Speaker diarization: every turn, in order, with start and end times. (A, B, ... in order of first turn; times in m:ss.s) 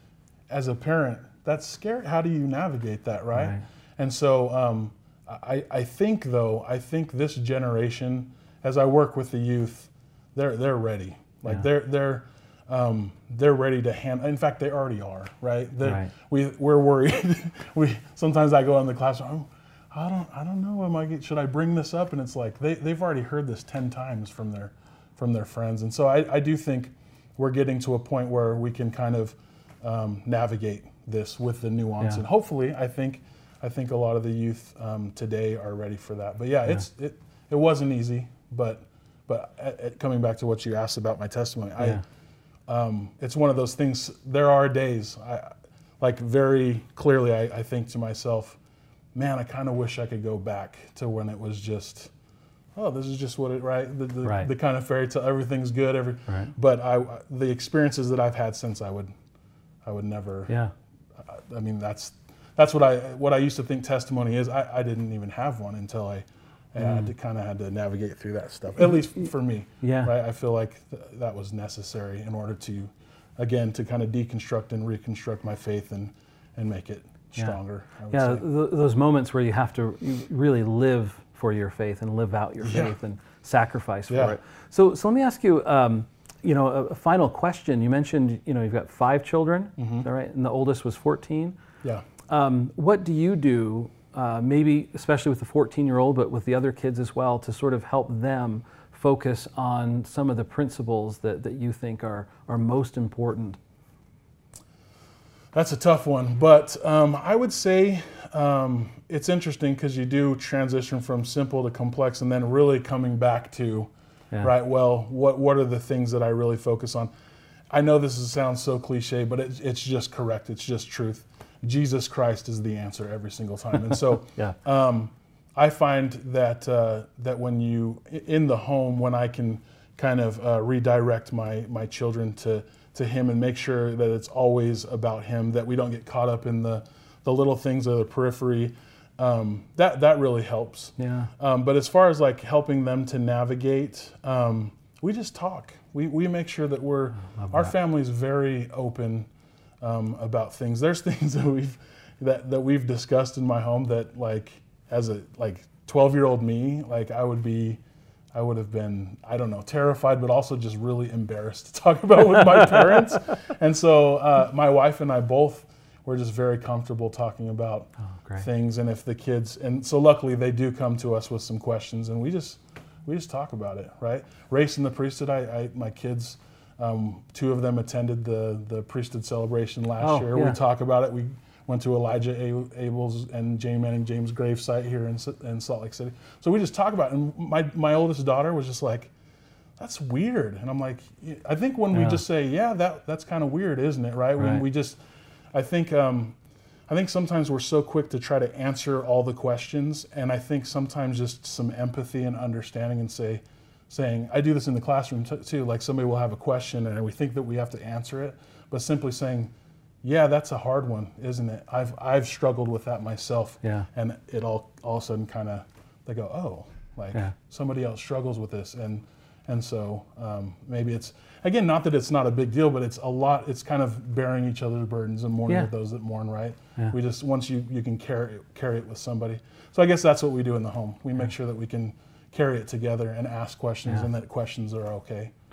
0:00.5-0:42.0 A
0:03.3-0:03.6 B
0:15.8-0:16.1 B
0:41.8-0:42.0 B
0:42.7-0:48.6 A
0:49.1-0:52.1 A
0:52.7-0:59.1 A
0:54.2-0:54.5 B
0:59.8-1:00.5 A
1:01.2-1:18.4 A
1:06.8-1:07.1 B
1:09.8-1:10.1 B
1:18.1-1:31.6 B
1:22.6-1:23.0 A
1:24.1-1:24.4 A
1:29.8-1:30.1 A
1:32.3-1:43.6 B
1:45.5-1:53.9 A
1:54.4-1:57.1 A
1:57.7-2:29.3 A
2:21.0-2:21.3 B
2:27.2-2:27.7 B
2:29.8-2:37.8 A
2:38.3-3:09.1 A
2:42.5-2:43.0 B
2:48.2-2:48.5 B
3:00.0-3:00.6 B
3:09.8-3:15.0 A
3:11.9-3:12.2 B
3:14.4-3:14.6 B
3:15.5-3:16.4 A
3:16.9-3:29.5 A
3:30.0-3:55.3 A